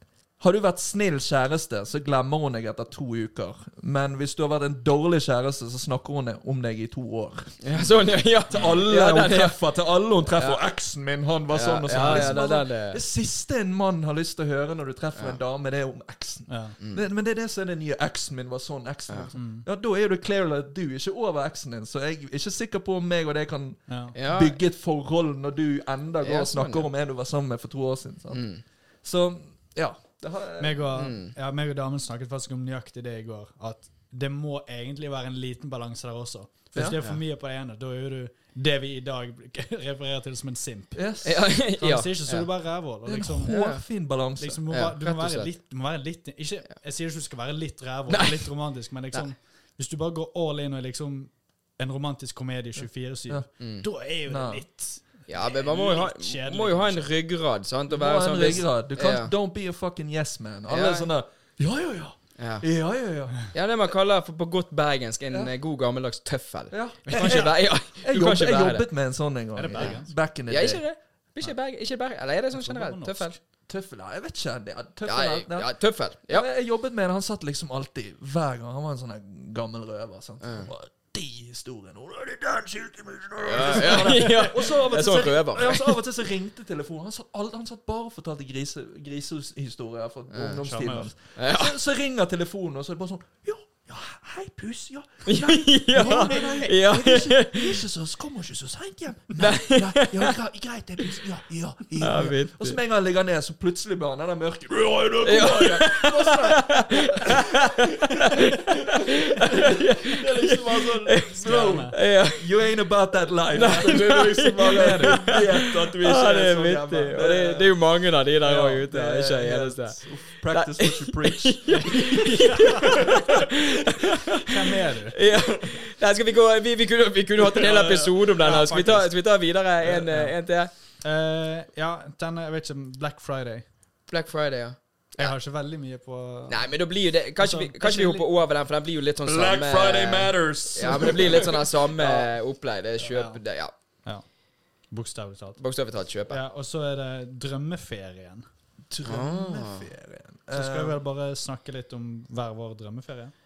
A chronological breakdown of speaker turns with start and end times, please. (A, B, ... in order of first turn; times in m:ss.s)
0:00.4-0:30.9 A
0:07.6-0:09.6 B
0:10.4-0:10.6 B
0:11.5-0:13.0 B
0:11.9-0:12.4 C
0:16.5-0:16.8 C
0:19.1-0:19.3 B
0:19.3-0:19.6 C
0:23.9-0:24.1 C
0:24.1-0:24.6 B
0:26.2-0:26.9 B
0:28.3-0:28.6 B
0:30.6-0:41.0 C
0:30.9-0:31.3 B
0:36.9-0:37.2 B
0:40.9-0:41.4 A
0:41.2-0:42.5 B
0:41.8-0:43.5 C
0:43.0-0:44.6 A
0:43.4-0:43.8 B
0:44.4-0:57.1 C
0:44.7-0:45.5 B
0:48.1-0:49.3 B
0:53.6-0:53.8 B
0:54.2-0:54.7 A
0:55.3-0:59.3 B
0:57.9-1:03.5 A
1:00.7-1:01.1 B
1:02.4-1:02.8 B
1:03.5-1:09.1 B
1:06.7-1:10.8 A
1:07.0-1:07.4 C
1:09.5-1:10.1 C
1:09.8-1:13.4 B
1:12.5-1:13.4 C
1:13.7-1:57.7 A
1:15.0-1:16.5 B
1:20.4-1:20.7 B
1:23.4-1:26.0 B
1:30.3-1:30.6 B
1:30.6-1:31.1 C
1:31.3-1:31.8 B
1:35.2-1:37.8 B
1:39.4-1:40.3 B
1:42.0-1:42.8 B
1:45.2-1:52.5 B
1:51.4-1:52.0 C
1:53.5-2:04.4 B
1:58.5-2:03.2 A
2:02.5-2:02.8 C
2:04.4-2:05.2 C
2:05.1-2:10.7 B
2:07.4-2:08.6 A
2:08.4-2:09.1 C
2:09.9-2:13.7 C
2:14.1-2:15.3 B
2:15.2-2:18.3 C
2:16.5-2:23.7 B
2:19.2-2:22.3 A
2:23.0-2:23.4 C
2:24.0-2:25.6 C
2:25.6-2:26.4 B
2:26.2-2:28.4 C
2:28.9-2:31.0 A
2:29.0-2:29.9 B
2:30.5-2:33.3 C